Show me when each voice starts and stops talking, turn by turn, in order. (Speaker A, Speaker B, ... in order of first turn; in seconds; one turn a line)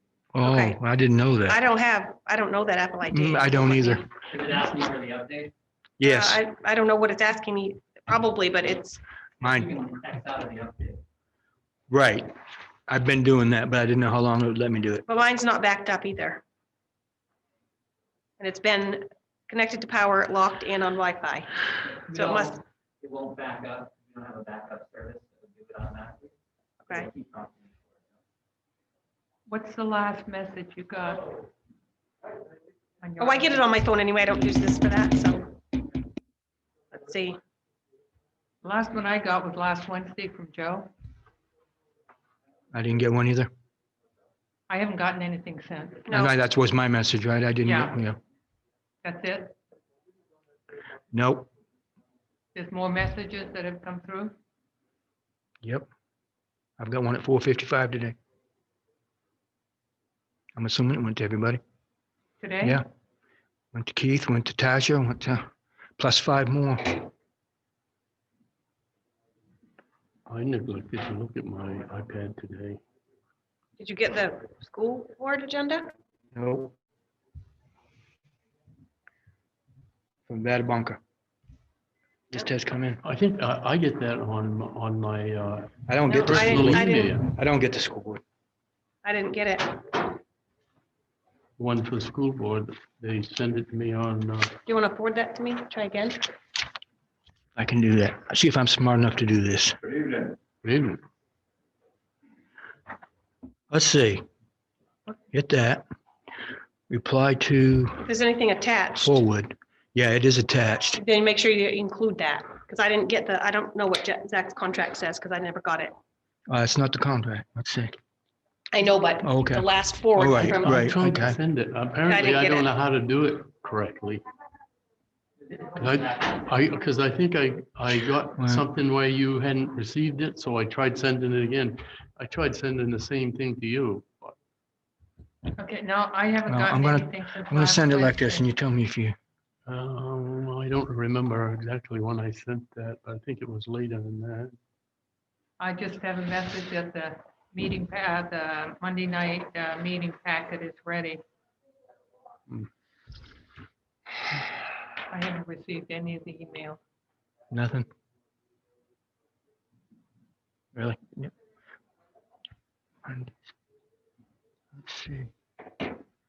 Speaker A: 0.3-1.6
Speaker B: 0.4-0.8
Speaker B: 1.5-4.0
Speaker A: 3.1-4.0
Speaker C: 4.3-5.5
Speaker A: 6.0-6.4
Speaker B: 6.0-9.0
Speaker A: 9.4-9.7
Speaker C: 9.4-11.0
Speaker A: 11.9-12.3
Speaker A: 12.9-15.0
Speaker B: 15.1-16.4
Speaker B: 18.4-21.5
Speaker C: 22.0-26.3
Speaker B: 22.1-22.6
Speaker C: 26.9-27.9
Speaker D: 29.5-31.3
Speaker D: 33.0-33.7
Speaker B: 33.2-35.6
Speaker B: 36.9-37.4
Speaker D: 38.6-40.9
Speaker A: 42.7-43.5
Speaker D: 44.7-46.1
Speaker B: 46.1-46.3
Speaker A: 46.1-48.2
Speaker D: 47.6-48.0
Speaker D: 49.0-49.5
Speaker A: 51.1-51.5
Speaker D: 52.5-54.3
Speaker A: 55.6-55.9
Speaker A: 56.8-58.1
Speaker A: 60.5-61.6
Speaker D: 62.4-62.8
Speaker A: 63.7-65.5
Speaker A: 66.0-67.0
Speaker E: 70.2-72.8
Speaker B: 73.8-75.9
Speaker A: 76.3-76.7
Speaker A: 80.3-81.0
Speaker A: 82.3-83.0
Speaker E: 83.0-87.3
Speaker A: 85.9-88.2
Speaker B: 86.1-87.1
Speaker B: 89.0-90.1
Speaker E: 91.6-94.6
Speaker B: 94.7-96.3
Speaker A: 97.5-99.8
Speaker E: 100.6-101.0
Speaker A: 103.7-104.2
Speaker A: 105.3-105.8
Speaker A: 106.9-108.1
Speaker B: 108.0-109.1
Speaker A: 109.0-111.0
Speaker B: 111.0-115.9
Speaker A: 116.5-118.0
Speaker B: 118.7-120.9
Speaker A: 119.2-121.4
Speaker E: 120.5-124.2
Speaker B: 122.0-122.7
Speaker C: 125.6-126.3
Speaker E: 125.7-134.3
Speaker D: 135.5-138.5
Speaker A: 136.4-139.1
Speaker E: 139.7-144.5
Speaker D: 145.6-151.2
Speaker D: 155.1-156.8
Speaker A: 157.5-157.8
Speaker A: 160.7-161.3
Speaker A: 163.0-163.3
Speaker A: 164.8-165.3